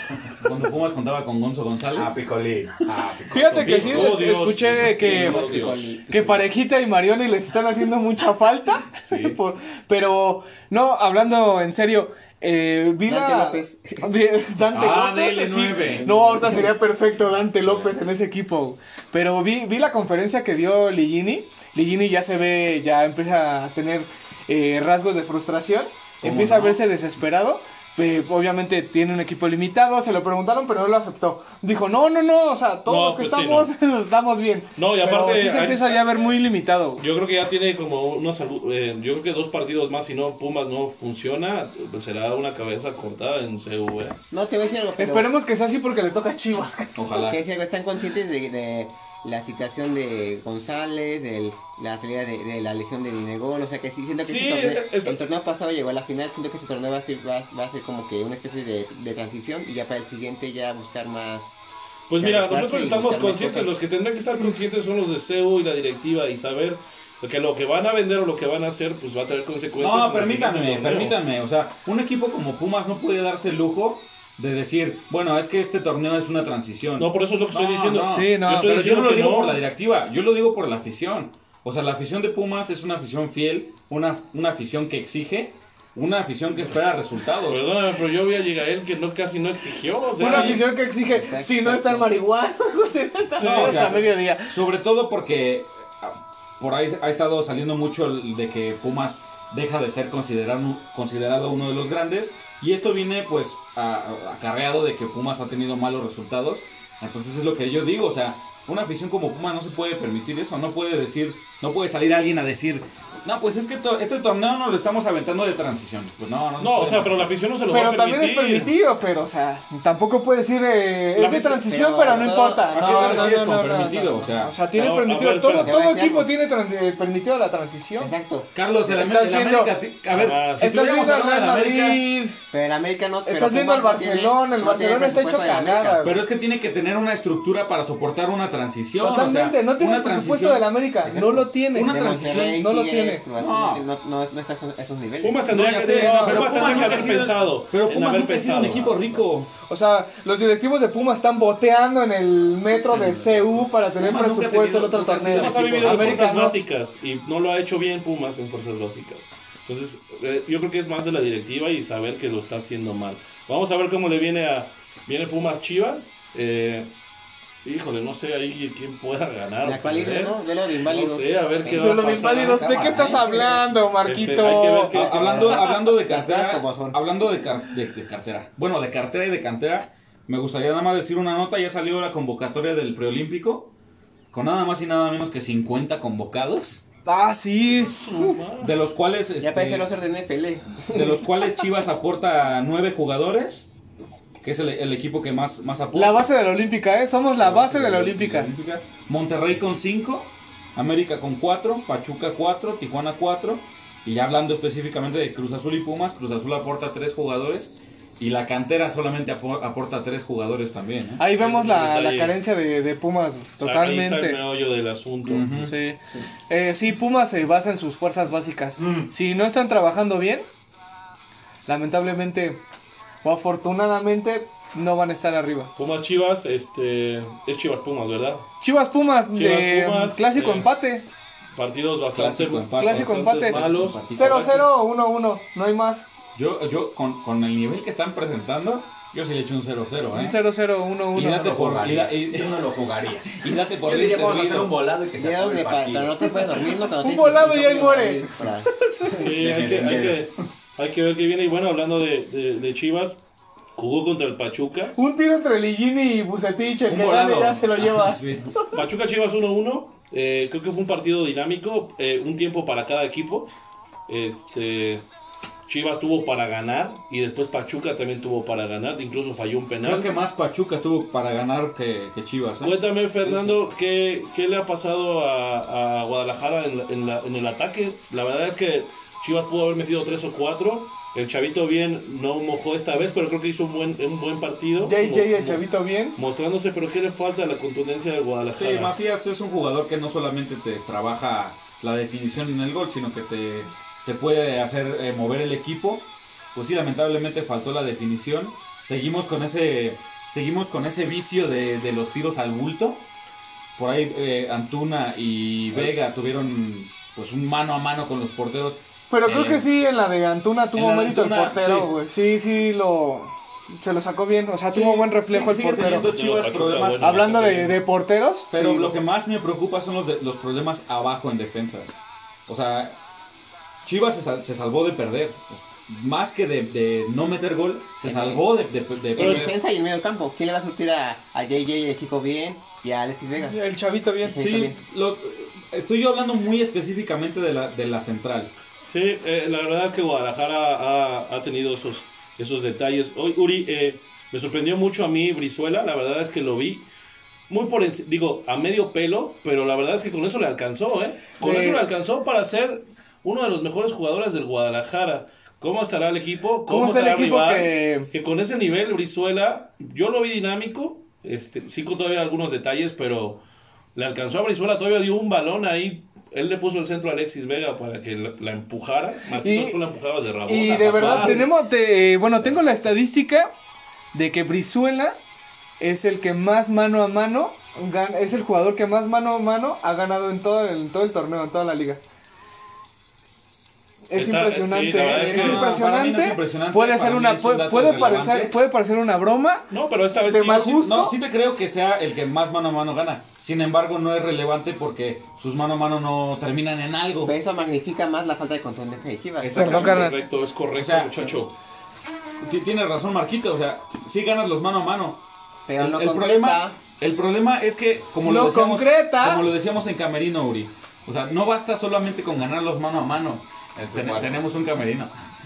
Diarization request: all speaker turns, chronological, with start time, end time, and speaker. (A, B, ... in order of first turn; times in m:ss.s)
0:00.4-0:02.2 A
0:01.9-0:04.1 B
0:03.3-0:05.5 C
0:03.6-0:06.0 D
0:05.0-0:06.5 E
0:06.1-0:37.0 C
0:09.0-0:09.3 D
0:13.0-0:14.1 E
0:14.7-0:16.6 A
0:16.0-0:16.6 E
0:26.2-0:26.8 A
0:32.8-0:33.7 D
0:34.8-0:36.0 D
0:37.0-0:44.2 D
0:44.3-0:45.3 E
0:45.0-0:47.0 C
0:46.9-0:47.4 A
0:47.1-1:01.6 E
0:54.2-0:55.2 D
1:02.1-1:11.2 D
1:02.2-1:03.8 E
1:09.8-1:27.7 A
1:17.0-1:19.6 D
1:18.1-1:18.7 C
1:27.5-1:30.7 D
1:30.2-1:34.6 C
1:31.0-1:32.1 E
1:33.4-1:34.1 D
1:33.4-1:57.3 A
1:56.6-1:58.7 D
1:57.7-2:08.1 C
2:01.1-2:01.6 D
2:01.6-2:03.4 E
2:02.7-2:04.5 A
2:04.7-2:05.7 D
2:05.6-2:06.3 E
2:08.0-2:08.5 E
2:08.5-2:12.0 A
2:08.8-2:09.8 C
2:10.1-2:10.7 D
2:10.6-2:12.4 C
2:12.5-2:16.1 E
2:13.2-2:16.2 C
2:16.0-2:20.7 A
2:19.0-2:23.2 C
2:21.0-2:25.5 E
2:21.7-2:22.6 A
2:23.4-2:23.8 A
2:25.2-2:29.1 D
2:25.5-2:29.5 A
2:25.9-2:27.2 C
2:29.7-2:36.6 C
2:32.9-2:36.3 A
2:35.3-2:46.9 D
2:47.6-2:53.0 D
2:49.6-2:52.1 E
2:51.7-2:54.9 C
2:52.5-2:53.2 A
2:53.1-2:53.6 E
2:54.0-2:55.6 D
2:54.9-3:03.7 A
2:54.9-2:57.0 E
3:04.3-3:06.8 A
3:07.0-3:08.3 C
3:07.7-3:08.8 D
3:08.6-3:09.9 A
3:09.4-3:11.3 E
3:10.9-3:13.7 A
3:14.4-3:16.2 A
3:15.9-3:18.5 C
3:17.4-3:31.2 A
3:31.2-3:34.4 C
3:31.4-3:32.4 D
3:33.6-3:35.5 D
3:35.2-3:35.7 A
3:35.5-3:36.0 C
3:36.5-3:40.4 C
3:41.7-3:42.6 C
3:43.2-3:45.7 C
3:45.8-3:48.4 D
3:48.6-3:51.0 C
3:49.3-3:50.7 D
3:51.5-3:54.7 D
3:52.1-3:54.5 A
3:52.8-3:56.1 C
3:56.3-4:00.5 A
4:00.1-4:01.7 C
4:01.1-4:02.7 A
4:01.4-4:06.5 B
4:03.3-4:04.8 A
4:05.2-4:08.7 E
4:07.0-4:09.3 C
4:09.1-4:13.2 D
4:09.1-4:10.3 B
4:13.8-4:14.9 D
4:15.0-4:18.8 C
4:16.9-4:18.5 A
4:18.7-4:23.5 D
4:24.1-4:25.0 D
4:25.7-4:30.1 D
4:29.8-4:33.5 A
4:32.6-4:49.0 D
4:44.8-4:46.2 C
4:48.6-5:03.1 A
5:03.8-5:09.7 A
5:09.1-5:16.1 C
5:10.7-5:11.9 A
5:14.7-5:17.3 A
5:15.8-5:17.8 D
5:17.0-5:19.0 C
5:18.5-5:21.9 A
5:22.5-5:23.0 A
5:23.8-5:29.6 A
5:28.0-5:28.4 E
5:29.1-5:33.6 E
5:33.4-5:34.5 C
5:34.2-5:34.8 E
5:34.4-5:38.5 A
5:38.8-5:46.9 D
5:47.5-6:03.4 D
5:51.4-5:51.8 C
5:56.7-5:58.1 C
6:03.9-6:11.5 D
6:09.4-6:09.8 C
6:10.5-6:13.5 C
6:14.1-6:15.2 C
6:15.8-6:22.0 C
6:24.1-6:29.7 C
6:24.1-6:25.6 D
6:25.1-6:28.5 A
6:29.7-6:30.7 D
6:30.2-6:31.2 C
6:30.6-6:37.3 A
6:37.2-6:40.1 E
6:39.4-6:40.1 A
6:39.5-6:40.2 C
6:39.6-6:41.5 D
6:40.8-6:41.3 A
6:42.4-6:45.2 A
6:45.7-6:46.8 E
6:45.8-6:55.1 A
6:48.2-6:49.4 C
6:53.8-6:54.4 B